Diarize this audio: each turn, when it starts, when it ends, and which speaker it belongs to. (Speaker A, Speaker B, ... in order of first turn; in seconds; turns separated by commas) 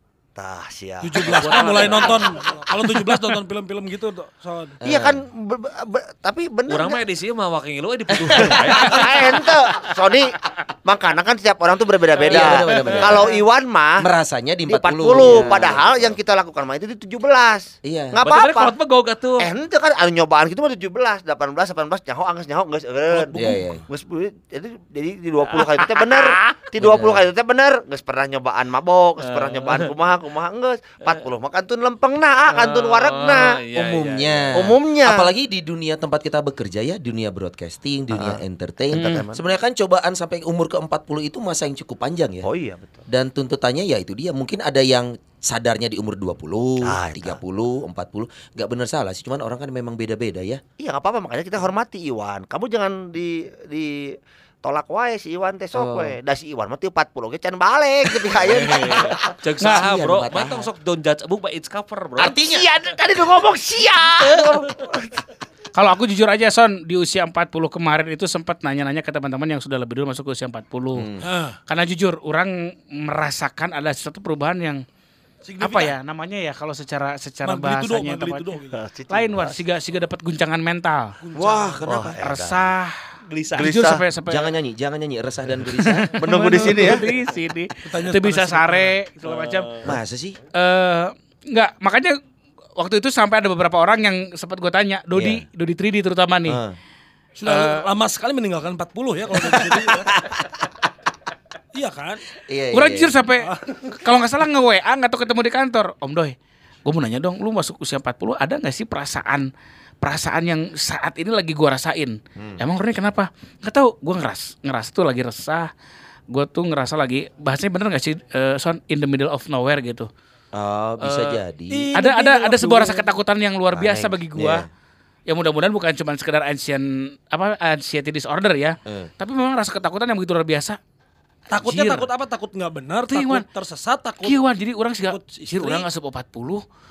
Speaker A: 0.4-2.3, Speaker B: 1.0-4.8, Speaker C: 1.2-2.4, Speaker D: 4.8-5.2, Speaker A: 4.8-7.0, Speaker C: 6.7-9.5, Speaker D: 8.1-9.1, Speaker A: 8.3-14.1, Speaker D: 12.2-13.3, Speaker C: 12.3-13.3, Speaker D: 14.0-16.2, Speaker A: 14.7-18.7, Speaker D: 17.8-18.2, Speaker C: 18.2-19.5, Speaker A: 19.4-33.5, Speaker D: 23.1-23.8, Speaker C: 25.5-26.6, Speaker D: 26.8-27.2, Speaker C: 29.2-29.9, Speaker C: 32.5-34.6, Speaker D: 33.8-42.5, Speaker A: 34.5-35.3, Speaker A: 38.1-38.4, Speaker A: 38.9-39.4, Speaker E: 38.9-39.2, Speaker A: 42.4-43.0, Speaker D: 43.1-50.6, Speaker A: 46.8-47.4, Speaker A: 50.8-59.3, Speaker D: 55.7-56.1, Speaker D: 58.3-60.7, Speaker C: 58.4-62.4, Speaker D: 62.2-62.6, Speaker A: 62.5-65.2, Speaker E: 65.8-71.1, Speaker D: 71.0-71.2, Speaker B: 71.2-71.6, Speaker E: 71.7-74.8, Speaker B: 75.4-76.0, Speaker E: 75.6-78.5, Speaker B: 77.4-78.8, Speaker A: 78.8-79.6, Speaker E: 79.1-81.2, Speaker B: 81.2-81.8, Speaker D: 81.3-82.2, Speaker A: 81.9-82.7, Speaker E: 82.2-83.0, Speaker C: 83.3-83.7, Speaker A: 83.5-84.0, Speaker E: 83.6-84.5, Speaker D: 84.3-86.1, Speaker E: 85.8-89.7, Speaker A: 86.0-87.0, Speaker B: 87.8-89.0, Speaker C: 89.2-90.0, Speaker D: 89.8-90.4, Speaker E: 90.5-92.2, Speaker E: 92.8-96.6, Speaker D: 95.1-95.4, Speaker D: 96.5-96.8, Speaker B: 97.4-100.1, Speaker E: 97.5-97.8, Speaker B: 101.7-102.2, Speaker D: 102.5-103.1, Speaker E: 102.7-106.3, Speaker B: 103.4-103.9, Speaker E: 106.9-109.5, Speaker E: 110.0-115.7, Speaker E: 116.3-120.1, Speaker D: 120.5-121.9, Speaker B: 121.7-123.1, Speaker E: 121.9-124.6, Speaker D: 123.7-124.7, Speaker E: 125.3-130.8, Speaker B: 131.5-134.4, Speaker E: 131.6-132.1, Speaker E: 133.1-133.5, Speaker E: 134.2-136.6, Speaker B: 135.0-135.9